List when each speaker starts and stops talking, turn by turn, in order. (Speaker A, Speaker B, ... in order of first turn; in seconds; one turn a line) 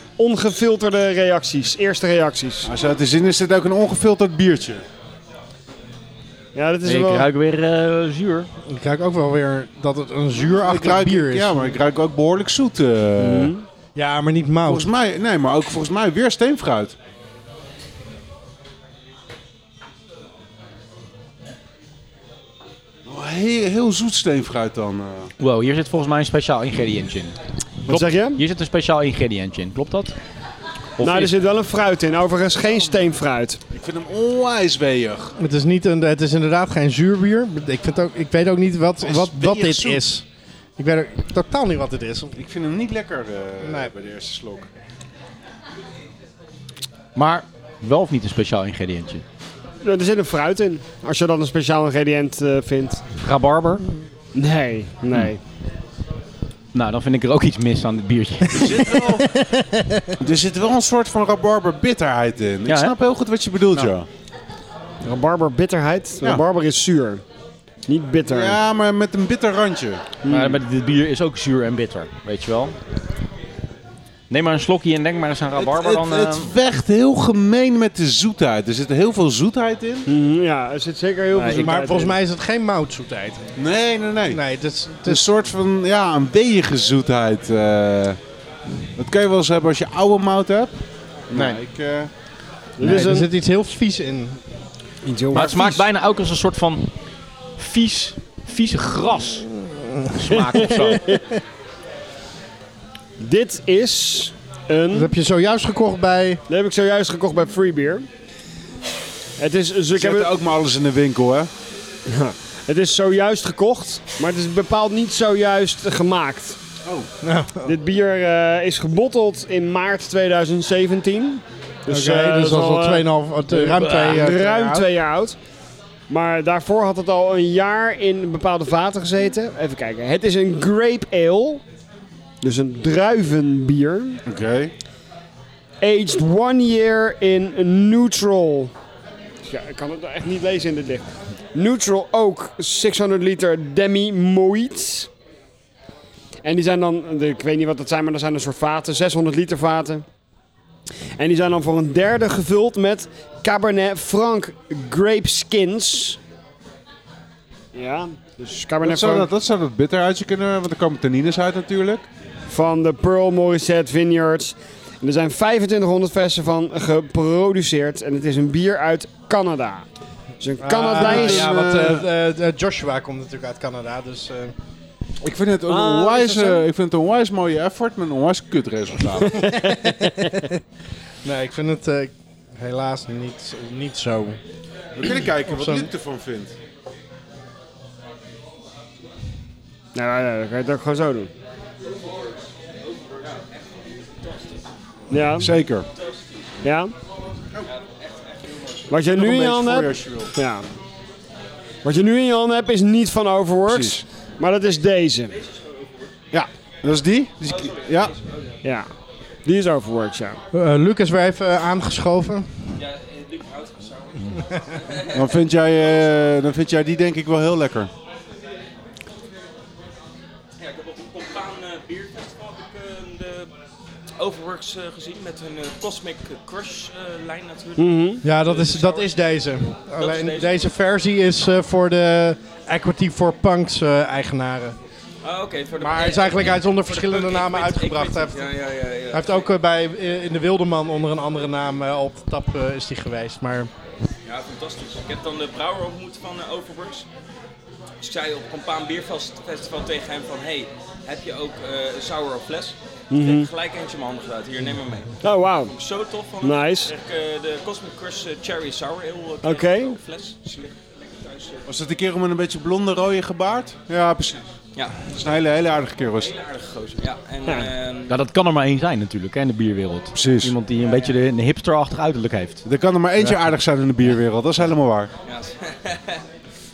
Speaker A: 0.2-2.7
Speaker B: 2.6-4.8
Speaker A: 6.5-7.3
Speaker C: 6.8-8.5
Speaker D: 8.6-11.7
Speaker B: 10.6-13.5
Speaker A: 13.2-13.6
Speaker D: 13.9-14.9
Speaker B: 14.7-16.9
Speaker B: 23.1-25.3
Speaker C: 25.4-27.4
Speaker A: 27.9-28.4
Speaker C: 27.9-30.1
Speaker C: 31.0-31.4
Speaker A: 31.0-33.6
Speaker B: 33.7-35.3
Speaker D: 35.4-40.2
Speaker B: 39.0-40.0
Speaker D: 40.8-42.3
Speaker B: 42.3-44.7
Speaker D: 43.6-43.9
Speaker C: 47.1-49.2
Speaker A: 49.8-53.0
Speaker C: 53.2-53.8
Speaker A: 54.3-55.4
Speaker C: 56.7-59.0
Speaker B: 58.5-59.3
Speaker D: 59.2-60.1
Speaker B: 60.2-64.1
Speaker C: 62.6-62.9
Speaker A: 65.0-67.2
Speaker A: 67.9-68.6
Speaker B: 68.3-70.1
Speaker A: 70.2-70.6
Speaker C: 70.3-72.8
Speaker C: 74.3-76.5
Speaker B: 75.5-80.1
Speaker A: 80.1-82.1
Speaker C: 81.3-81.8
Speaker D: 81.6-83.4
Speaker B: 83.5-84.4
Speaker D: 84.3-85.3
Speaker B: 85.0-88.2
Speaker B: 89.0-90.8
Speaker B: 91.3-92.1
Speaker A: 92.8-93.3
Speaker D: 92.8-94.4
Speaker A: 95.0-95.8
Speaker C: 95.3-96.9
Speaker C: 97.6-99.5
Speaker D: 99.7-100.1
Speaker C: 100.1-101.2
Speaker A: 100.5-101.2
Speaker A: 103.2-105.1
Speaker D: 104.9-106.4
Speaker A: 106.5-108.1
Speaker A: 109.4-110.3
Speaker B: 109.9-111.5
Speaker A: 112.0-116.6
Speaker D: 117.2-117.7
Speaker A: 117.6-125.4
Speaker D: 121.9-124.8
Speaker B: 124.2-124.4
Speaker A: 126.1-131.6
Speaker A: 132.4-134.2
Speaker B: 134.2-134.7
Speaker A: 135.8-138.7
Speaker A: 139.5-145.1
Speaker A: 146.4-150.0
Speaker A: 151.2-156.2
Speaker A: 157.7-159.3
Speaker B: 158.8-162.1
Speaker A: 162.5-169.8
Speaker A: 170.4-171.5
Speaker D: 170.6-174.5
Speaker B: 170.8-172.0
Speaker B: 175.2-179.5
Speaker A: 175.7-176.6
Speaker A: 179.3-180.5
Speaker D: 179.6-180.4
Speaker D: 181.2-184.4
Speaker B: 184.9-186.5
Speaker D: 185.1-185.9
Speaker A: 189.9-191.3
Speaker E: 192.0-194.7
Speaker A: 195.1-195.5
Speaker B: 195.4-195.8
Speaker E: 195.9-196.5
Speaker A: 196.6-196.9
Speaker E: 197.6-198.9
Speaker A: 198.9-200.7
Speaker B: 199.1-200.3
Speaker A: 201.8-205.3
Speaker B: 203.7-204.0
Speaker E: 205.3-206.1
Speaker B: 206.3-208.1
Speaker E: 207.4-208.6
Speaker A: 208.6-208.9
Speaker A: 209.4-210.4
Speaker D: 210.5-212.6
Speaker E: 212.8-215.5
Speaker B: 215.1-217.9
Speaker E: 220.6-223.5
Speaker E: 224.2-229.2
Speaker A: 227.8-228.2
Speaker D: 228.2-234.8
Speaker E: 229.9-230.7
Speaker E: 235.2-239.5
Speaker D: 235.8-238.5
Speaker D: 239.1-243.7
Speaker E: 244.2-247.1
Speaker E: 248.0-261.7
Speaker A: 253.1-253.5
Speaker A: 255.2-255.7
Speaker A: 256.4-256.9
Speaker A: 259.4-260.0
Speaker B: 261.7-264.5
Speaker E: 264.7-265.1
Speaker B: 265.1-266.3
Speaker E: 266.2-268.1
Speaker C: 268.1-272.6
Speaker B: 270.1-270.5
Speaker E: 270.8-271.1
Speaker B: 272.6-275.1
Speaker E: 275.2-276.2